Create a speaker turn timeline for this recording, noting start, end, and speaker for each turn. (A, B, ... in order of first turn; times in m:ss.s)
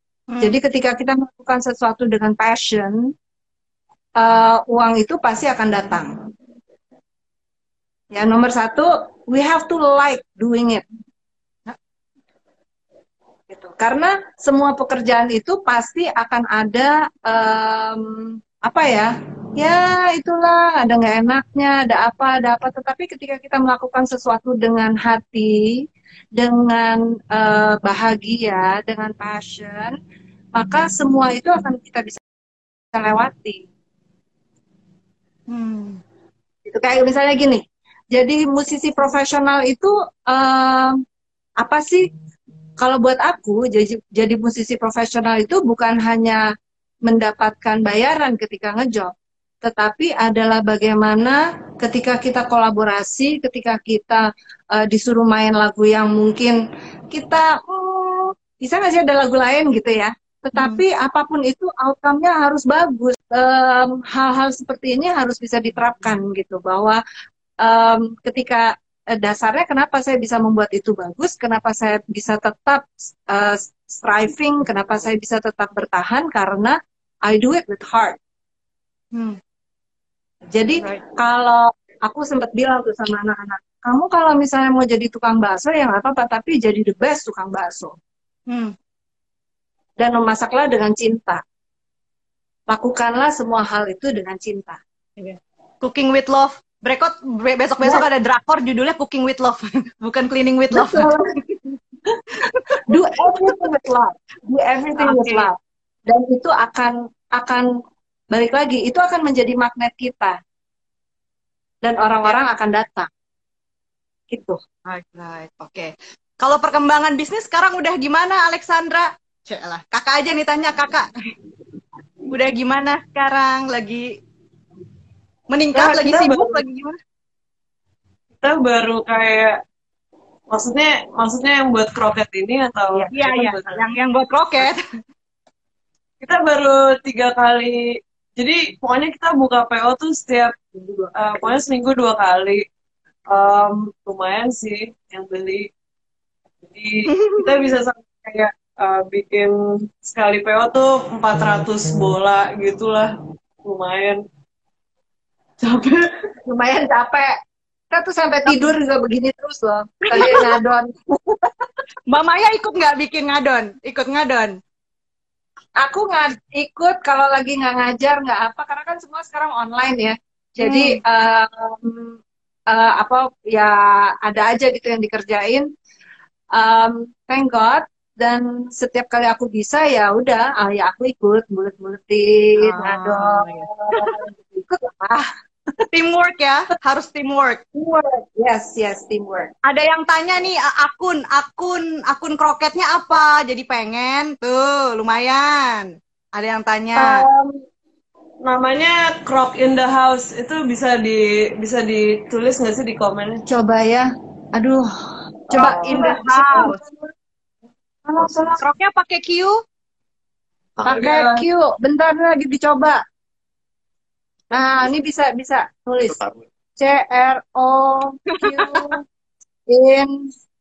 0:00.3-0:00.6 A
0:00.4-0:03.1 B
0:04.2-0:06.1 B
0:08.1-0:10.8 B
0:13.5-0:30.0 B
0:30.6-0:32.2 B
0:32.9-0:33.7 B
0:35.5-0:36.0 A
0:36.7-0:41.0 B
0:41.6-0:42.1 B
0:42.8-0:46.4 B
0:47.0-0:49.1 B
0:49.6-0:56.6 B
0:57.1-1:07.0 B
1:00.6-1:00.8 A
1:07.6-1:18.2 B
1:20.5-1:28.0 B
1:28.5-1:28.7 A
1:30.0-1:31.4 B
1:32.7-1:34.8 B
1:35.2-1:41.1 A
1:40.7-1:41.6 B
1:42.5-1:43.5 A
1:42.9-1:45.6 B
1:45.0-1:45.5 A
1:46.1-1:47.7 B
1:48.3-1:50.4 B
1:51.8-1:53.1 B
1:54.3-1:54.6 B
1:54.9-2:01.1 A
2:02.3-2:04.1 A
2:05.5-2:07.0 A
2:05.8-2:06.6 C
2:08.4-2:09.6 C
2:10.5-2:13.8 C
2:13.1-2:14.8 A
2:16.2-2:20.6 C
2:20.8-2:21.1 B
2:21.2-2:22.6 C
2:23.3-2:25.7 C
2:26.6-2:33.1 C
2:27.1-2:27.7 A
2:33.6-2:34.2 C
2:35.6-2:36.1 C
2:36.4-2:37.3 B
2:37.9-2:41.5 B
2:40.1-2:40.6 A
2:42.1-2:44.6 A
2:45.8-2:55.7 B
2:50.6-2:51.0 A
2:56.6-3:05.3 B
3:02.6-3:04.2 A
3:05.9-3:07.6 A
3:07.7-3:09.5 B
3:09.6-3:17.2 A
3:17.0-3:17.5 B
3:18.4-3:23.4 C
3:23.5-3:24.9 B
3:25.5-3:27.1 B
3:25.5-3:26.2 C
3:25.6-3:26.8 A
3:28.0-3:28.6 B
3:28.6-3:29.6 A
3:30.8-3:31.4 C
3:30.8-3:33.0 B
3:34.5-3:36.2 B
3:36.8-3:39.0 B
3:38.3-3:39.0 A
3:39.7-3:40.3 B